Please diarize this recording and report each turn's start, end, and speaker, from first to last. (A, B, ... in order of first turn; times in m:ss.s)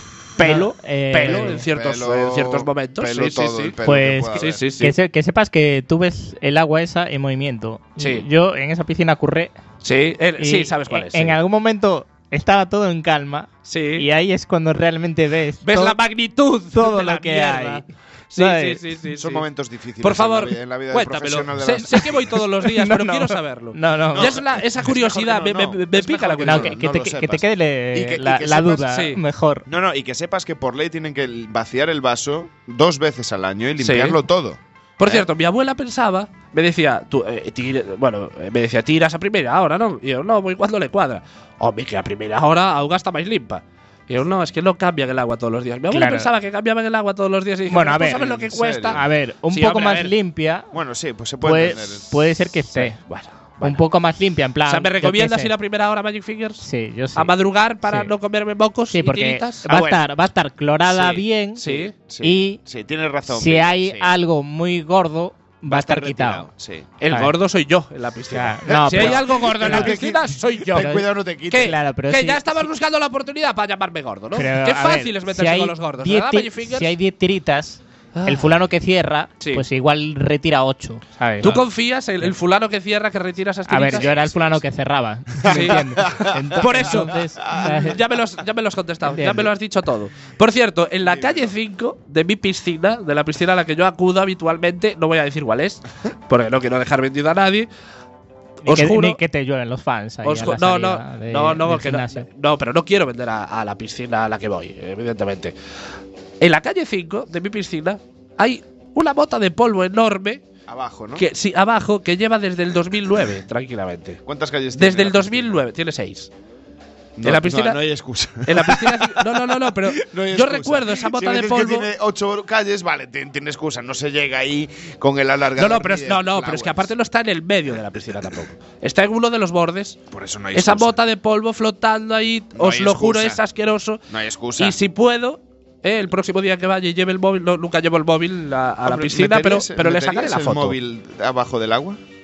0:00.4-0:03.8 A
0:00.4-0:01.6 B
0:01.2-0:04.7 C
0:03.8-0:09.6 B
0:04.3-0:05.0 A
0:08.0-0:08.3 A
0:09.8-0:11.4 A
0:10.4-0:16.0 B
0:13.7-0:14.1 A
0:15.6-0:19.4 A
0:16.7-0:17.8 B
0:18.4-0:18.9 B
0:19.2-0:22.4 C
0:20.0-0:26.8 A
0:22.0-0:24.4 B
0:24.1-0:29.0 C
0:26.4-0:29.7 B
0:28.9-0:29.2 A
0:29.7-0:35.3 C
0:33.8-0:34.2 A
0:35.0-0:50.2 A
0:45.9-0:46.3 B
0:47.7-0:50.7 B
0:48.1-0:49.0 C
0:50.7-0:52.2 C
0:51.4-0:53.0 B
0:52.7-0:53.8 A
0:53.6-0:55.5 B
0:54.6-0:56.6 A
0:56.6-0:57.3 B
0:57.1-0:59.7 A
0:57.8-0:58.1 B
0:58.9-1:02.6 B
0:59.7-1:00.0 C
1:00.9-1:01.9 A
1:02.1-1:04.1 C
1:03.3-1:06.5 B
1:05.7-1:06.9 C
1:07.0-1:10.9 A
1:08.3-1:10.0 B
1:08.7-1:11.8 C
1:10.8-1:12.7 B
1:11.5-1:17.0 A
1:14.4-1:21.7 B
1:18.1-1:18.6 A
1:19.4-1:19.6 A
1:21.4-1:24.6 A
1:23.7-1:28.0 B
1:25.4-1:28.1 C
1:25.4-1:25.8 A
1:26.6-1:37.7 A
1:29.1-1:29.5 B
1:31.0-1:31.6 C
1:38.6-1:39.2 A
1:38.6-1:42.3 B
1:40.2-1:45.5 A
1:46.4-1:50.4 A
1:50.7-1:51.3 C
1:51.2-1:54.2 A
1:54.2-1:55.6 C
1:54.7-1:56.3 A
1:57.2-2:06.9 C
1:57.2-1:57.8 A
1:58.4-2:01.9 A
2:05.6-2:10.0 A
2:07.8-2:08.1 C
2:10.1-2:11.0 C
2:10.5-2:14.0 A
2:12.5-2:13.4 C
2:14.1-2:14.8 C
2:14.6-2:20.8 A
2:18.8-2:22.0 C